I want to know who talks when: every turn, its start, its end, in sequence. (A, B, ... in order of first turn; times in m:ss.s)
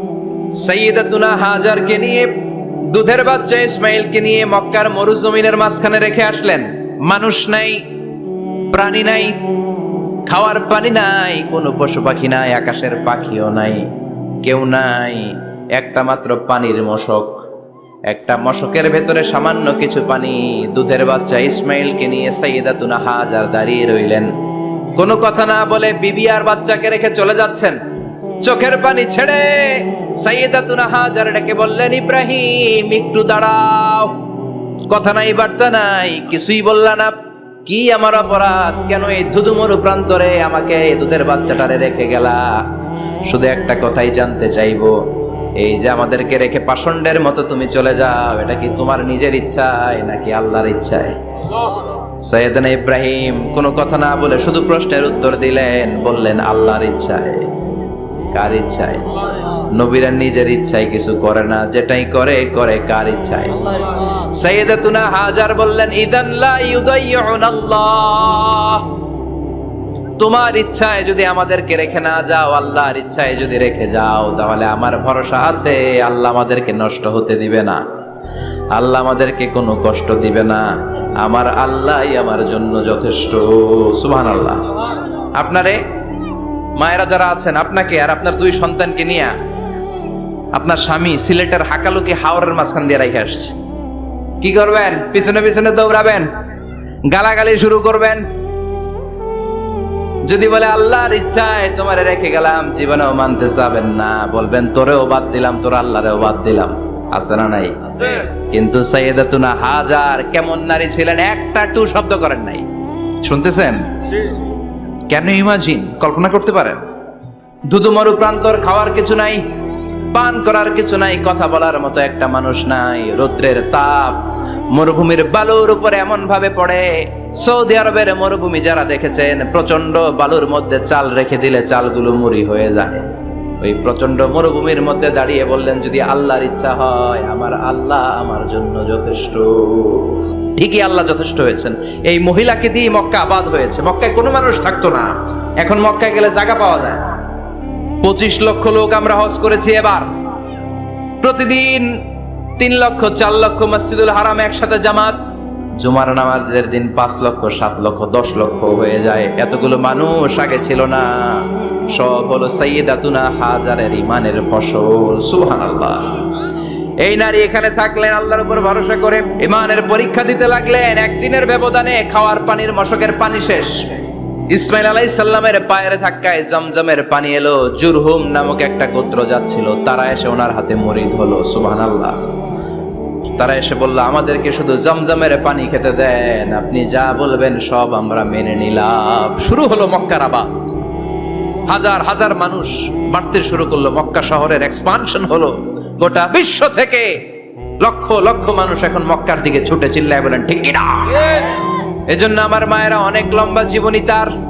0:00.6-0:02.3 A
0:02.9-0:07.8 A
0:08.7-0:09.4 A
0:10.3-0:13.9 A
0:14.4-0:17.4 A
0:18.1-0:24.3 A
0:25.0-0:27.8 A
0:28.4-0:34.2 A
0:34.9-0:37.1 A
0:37.7-0:42.6 A
0:43.3-0:44.9 A
0:45.6-0:51.2 A
0:52.2-0:57.5 A
0:58.3-1:08.9 A
1:10.2-1:17.8 A
1:18.7-1:24.7 A
1:25.4-1:25.8 A
1:26.8-1:29.3 A
1:30.6-1:33.6 A
1:34.4-1:36.3 A
1:37.1-1:38.2 A
1:40.3-1:52.6 A
1:53.2-1:53.8 A
1:55.1-1:56.8 A
1:57.7-1:59.4 A
2:00.1-2:04.2 A
2:04.7-2:13.0 A
2:13.6-2:27.1 A
2:28.0-2:30.1 A
2:31.2-2:31.9 A
2:32.6-2:35.2 A
2:35.8-2:46.2 A
2:47.0-2:54.0 A
2:54.5-3:02.3 A
3:03.4-3:10.5 A
3:11.7-3:17.2 A
3:17.8-3:24.3 A